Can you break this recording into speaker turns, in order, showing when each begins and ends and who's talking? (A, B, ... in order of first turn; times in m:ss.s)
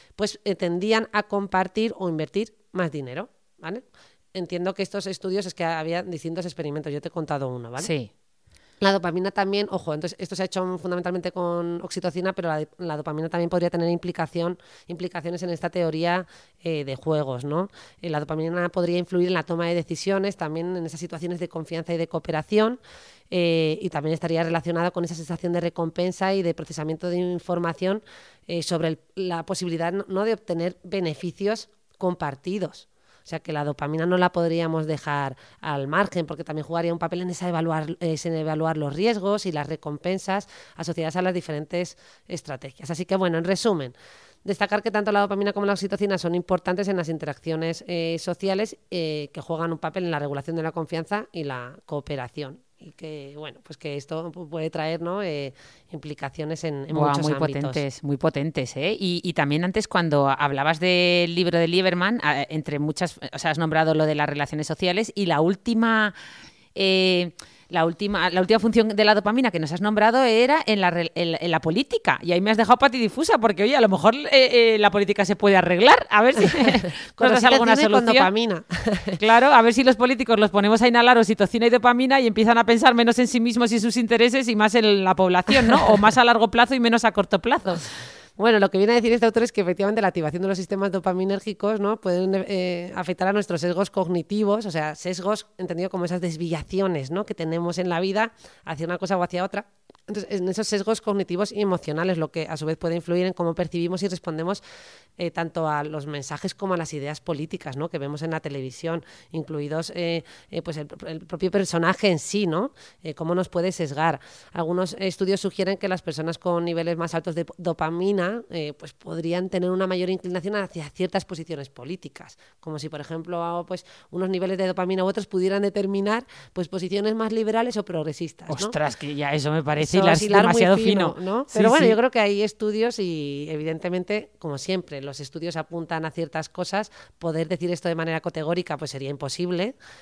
0:00.2-0:03.8 A
0:04.4-0:07.9 A
0:07.8-0:08.1 B
0:08.8-0:22.8 A
0:23.3-0:57.8 A
0:56.9-1:06.1 B
1:06.8-1:18.3 B
1:17.2-1:19.2 A
1:19.2-1:27.9 B
1:25.6-1:25.9 A
1:28.4-1:44.6 A
1:45.2-2:08.8 A
2:08.5-2:12.0 B
2:09.8-2:19.8 A